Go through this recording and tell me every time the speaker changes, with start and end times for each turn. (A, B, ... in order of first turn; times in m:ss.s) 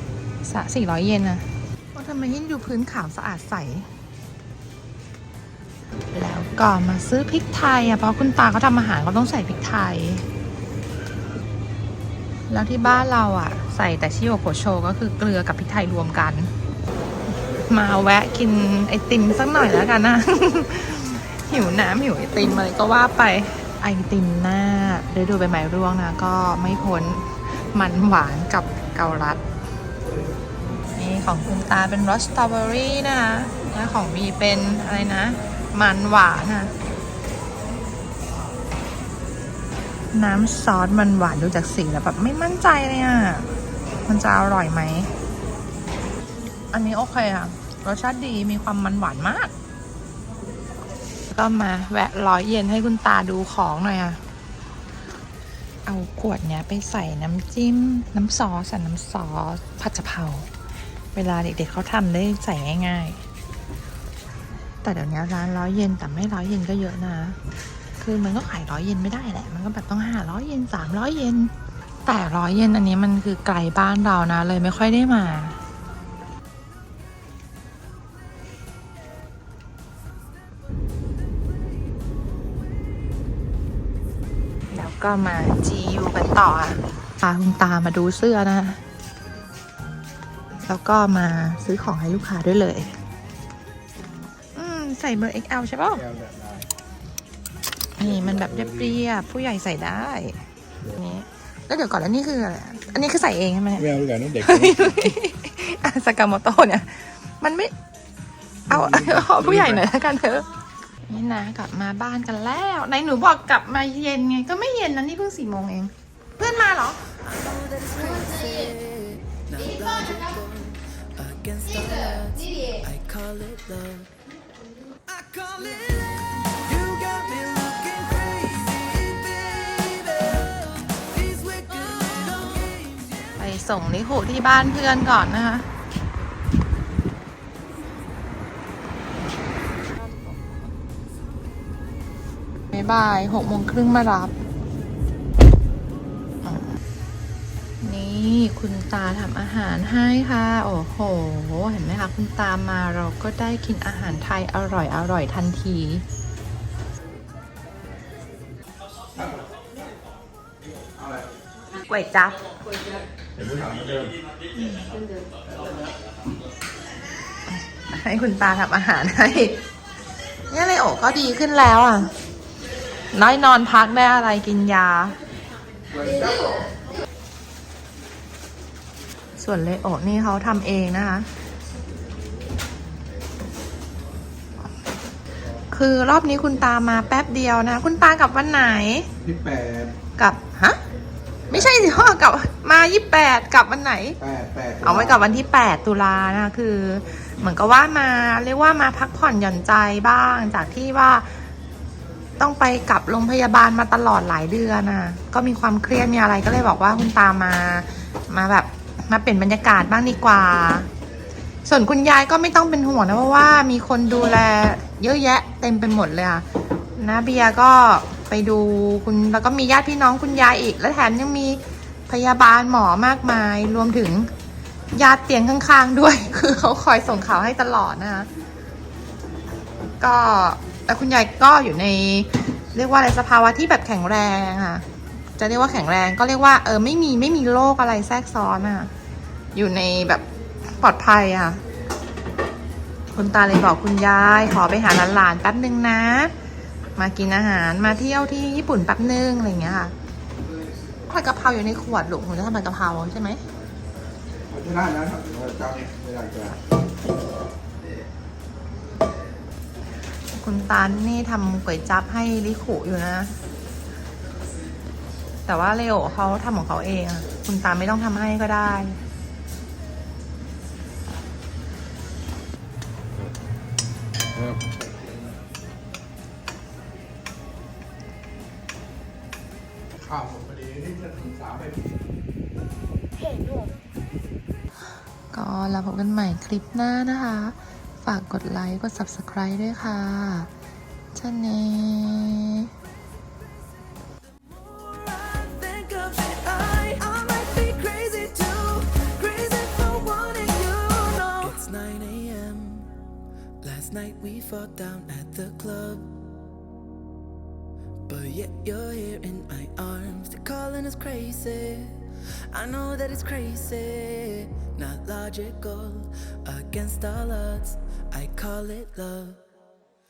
0:00.4-0:03.9 A
0:06.1-0:10.2 A
0:12.5-0:16.5 A
0:17.6-0:29.4 A
0:31.0-0:36.7 A
0:40.1-0:43.5 A
0:44.1-0:45.1 A
0:46.7-0:49.5 A
0:51.3-0:54.2 A
0:55.9-1:00.5 A
1:01.2-1:03.2 A
1:04.8-1:07.4 A
1:08.0-1:11.5 A
1:12.1-1:15.6 A
1:24.7-1:28.8 A
1:30.6-1:32.9 A
1:34.6-1:36.0 A
1:36.1-1:36.6 B
1:38.0-1:47.7 A
1:43.9-1:44.9 B
1:48.7-1:50.5 A
1:48.7-1:49.7 B
1:51.1-1:57.1 A
1:57.2-2:04.1 C
2:05.1-2:13.4 C
2:13.4-2:15.7 A
2:22.7-2:24.4 A
2:26.4-2:26.7 A
2:27.8-2:36.0 A
2:41.8-2:42.6 A
2:43.4-2:44.1 B
2:44.6-2:44.9 A
2:47.8-2:49.6 A
2:50.5-2:52.1 A
2:53.1-2:55.2 A
2:59.4-3:01.3 A
3:05.7-3:09.1 A
3:09.2-3:10.0 B
3:10.2-3:10.8 A
3:11.5-3:14.2 A
3:14.2-3:15.0 B
3:14.8-3:21.4 A
3:22.4-3:30.9 A
3:31.6-3:36.4 A
3:37.0-3:44.3 A
3:44.9-3:48.3 A
3:50.0-3:54.8 A
3:55.4-3:58.9 A
3:59.5-4:01.6 A
4:03.1-4:06.3 A
4:07.0-4:09.9 A
4:11.1-4:13.4 A
4:14.5-4:16.6 B
4:20.3-4:23.3 A
4:25.5-4:29.0 A
4:40.0-4:41.8 B
4:45.3-4:50.5 A
4:51.2-4:52.7 A
4:54.5-5:03.0 C
5:03.6-5:06.1 C
5:08.1-5:19.4 C